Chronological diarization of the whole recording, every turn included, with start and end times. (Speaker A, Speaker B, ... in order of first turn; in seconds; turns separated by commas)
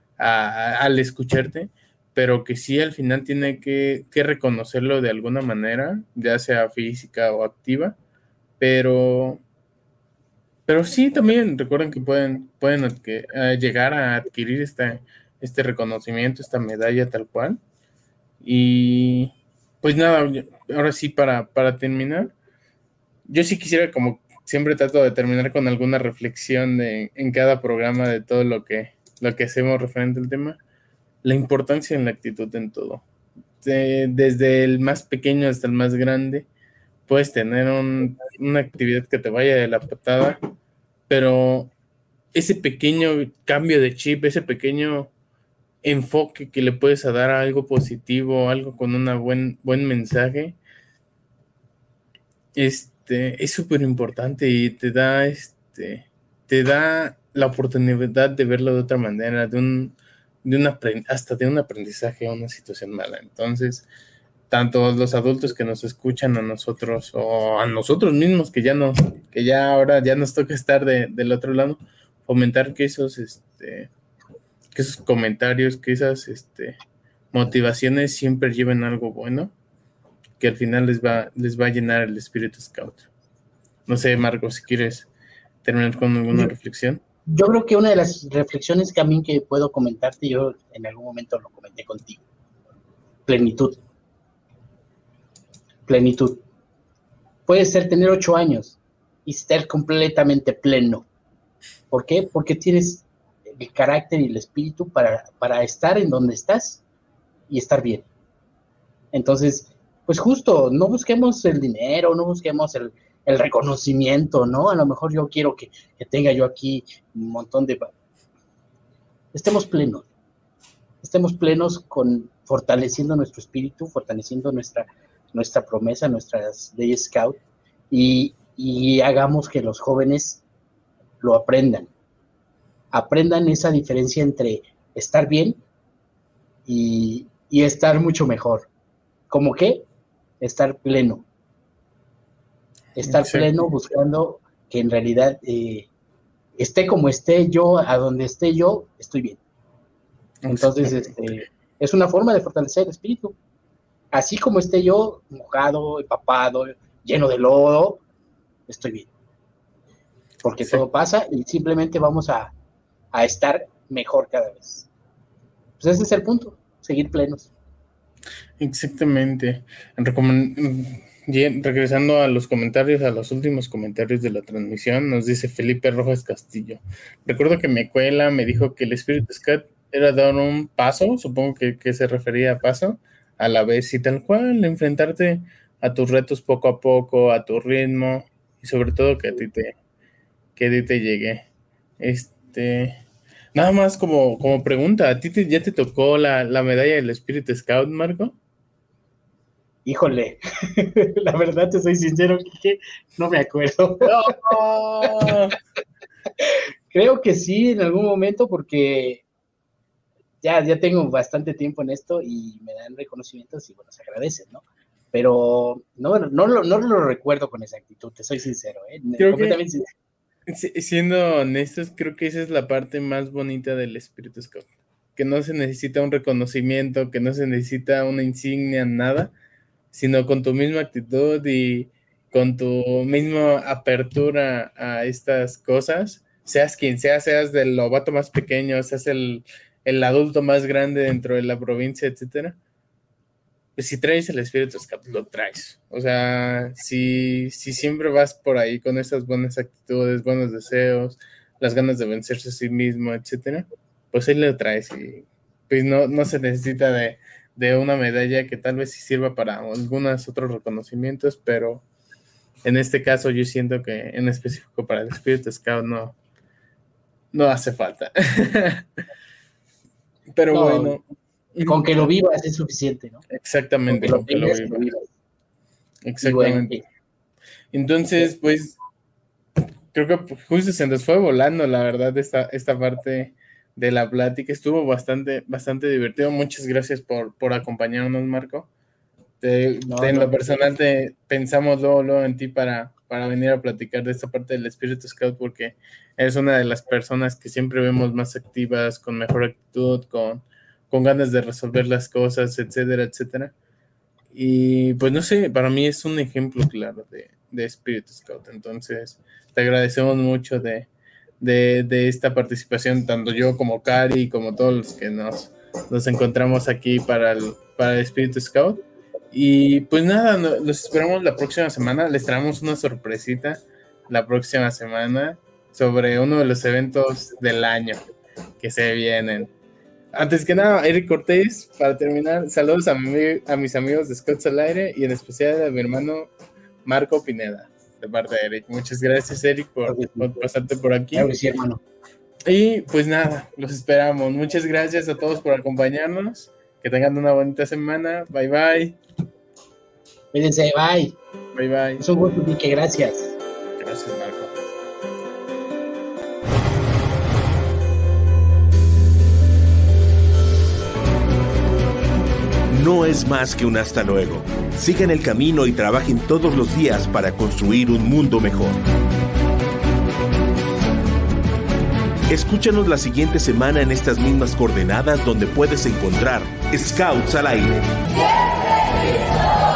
Speaker A: 0.2-8.0, Speaker A: 8.6-9.4, Speaker A: 10.7-17.6, Speaker A: 18.4-22.3, Speaker A: 23.2-30.6, Speaker A: 31.2-33.0, Speaker A: 33.6-36.5, Speaker A: 37.1-40.4, Speaker A: 41.1-41.7, Speaker A: 42.3-45.1, Speaker A: 45.8-50.6, Speaker A: 52.5-63.9, Speaker A: 64.5-73.9, Speaker A: 74.7-76.8, Speaker A: 77.3-79.5, Speaker A: 80.4-83.0, Speaker A: 83.9-85.1, Speaker A: 85.6-87.0, Speaker B: 87.3-92.2, Speaker B: 93.3-93.8, Speaker B: 95.9-96.4, Speaker B: 97.5-101.1, Speaker B: 101.9-106.8, Speaker B: 107.5-108.1, Speaker B: 109.1-117.9, Speaker B: 119.3-120.1, Speaker B: 121.0-127.4, Speaker B: 127.9-130.4, Speaker B: 131.2-131.9, Speaker B: 132.9-135.6, Speaker B: 136.7-138.7, Speaker B: 139.3-139.8, Speaker B: 140.4-141.2, Speaker B: 142.9-145.9, Speaker A: 143.0-143.6, Speaker B: 146.6-149.4, Speaker A: 150.4-151.1, Speaker B: 150.5-153.3, Speaker B: 154.1-158.0, Speaker B: 158.7-159.1, Speaker B: 160.4-162.5, Speaker B: 163.1-164.9, Speaker B: 165.8-167.5, Speaker A: 168.6-189.7, Speaker A: 190.6-191.4, Speaker A: 192.0-193.0, Speaker A: 193.5-198.3, Speaker B: 199.8-204.1, Speaker A: 204.0-205.6, Speaker B: 206.4-209.2, Speaker B: 210.4-219.9, Speaker A: 219.2-219.6, Speaker A: 220.5-229.3, Speaker A: 229.9-242.6, Speaker A: 243.8-261.8, Speaker A: 262.6-266.1, Speaker A: 267.3-268.8, Speaker A: 270.3-271.0, Speaker B: 270.5-271.0, Speaker A: 271.6-271.8, Speaker B: 271.6-273.2, Speaker A: 273.3-274.8, Speaker B: 273.9-275.1, Speaker A: 276.0-276.8, Speaker B: 276.2-276.8, Speaker A: 277.7-278.8, Speaker A: 279.9-288.7, Speaker A: 289.4-303.5, Speaker B: 289.9-290.4, Speaker A: 304.3-310.9, Speaker A: 311.4-328.0, Speaker A: 328.6-329.5, Speaker A: 330.1-336.3, Speaker A: 336.8-341.3, Speaker B: 339.9-340.4, Speaker B: 341.1-341.8, Speaker A: 342.4-349.0, Speaker B: 350.3-351.2, Speaker A: 351.5-352.0, Speaker B: 352.0-353.4, Speaker A: 353.8-354.6, Speaker C: 362.7-368.8, Speaker C: 372.3-377.9